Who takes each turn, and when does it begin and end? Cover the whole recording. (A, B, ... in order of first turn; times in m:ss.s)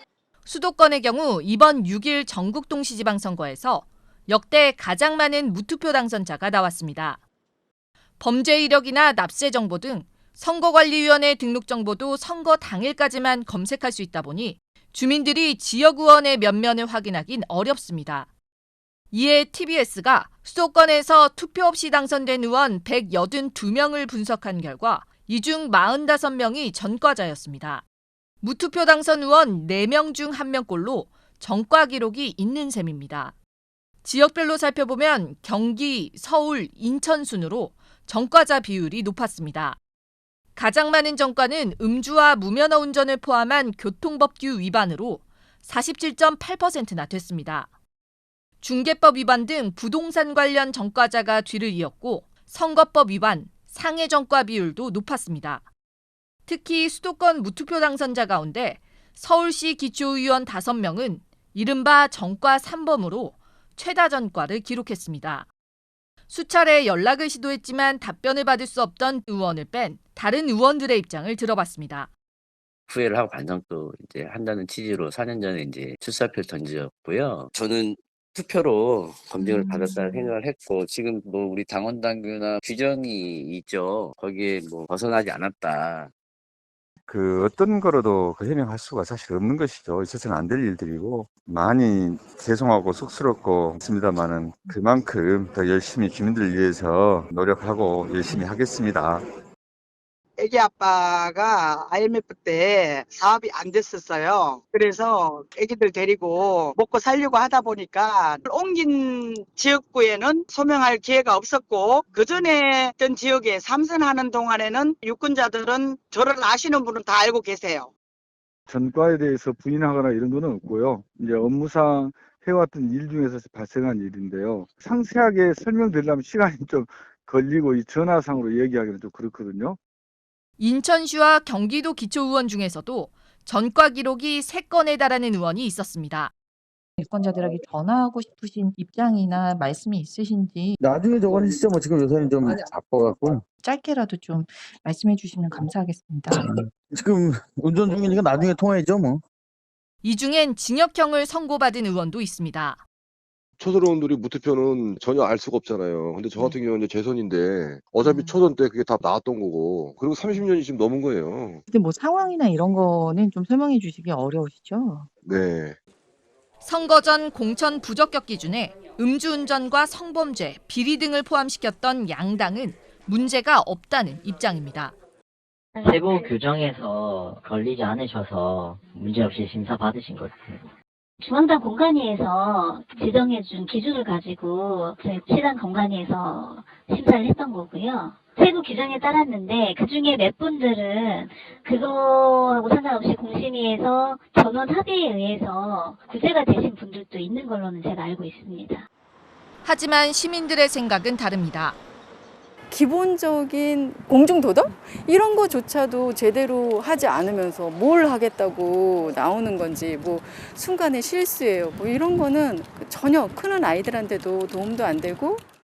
0:00.4-0:07.2 A
0:08.2-0:18.3 A
0:19.1-0:27.8 A
0:28.4-0:33.3 A
0:34.0-0:39.8 A
0:40.6-0:47.7 A
0:48.6-0:55.6 A
0:56.5-1:05.5 A
1:06.3-1:12.1 A
1:12.9-1:26.1 B
1:19.4-1:19.7 C
1:27.1-1:39.2 D
1:40.4-1:57.9 E
1:58.7-2:09.8 F
1:59.0-2:04.2 G
2:04.9-2:07.8 G
2:10.6-2:16.3 A
2:17.0-2:20.8 C
2:20.8-2:23.4 H
2:23.6-2:26.5 C
2:26.5-2:29.2 H
2:30.0-2:32.8 A
2:33.6-2:41.6 I
2:38.0-2:38.3 C
2:41.7-2:45.1 C
2:45.2-2:45.8 I
2:46.6-2:55.0 A
2:55.8-2:56.3 J
2:55.8-3:00.6 K
3:01.2-3:18.9 J
3:19.6-3:21.8 A
3:22.7-3:35.4 G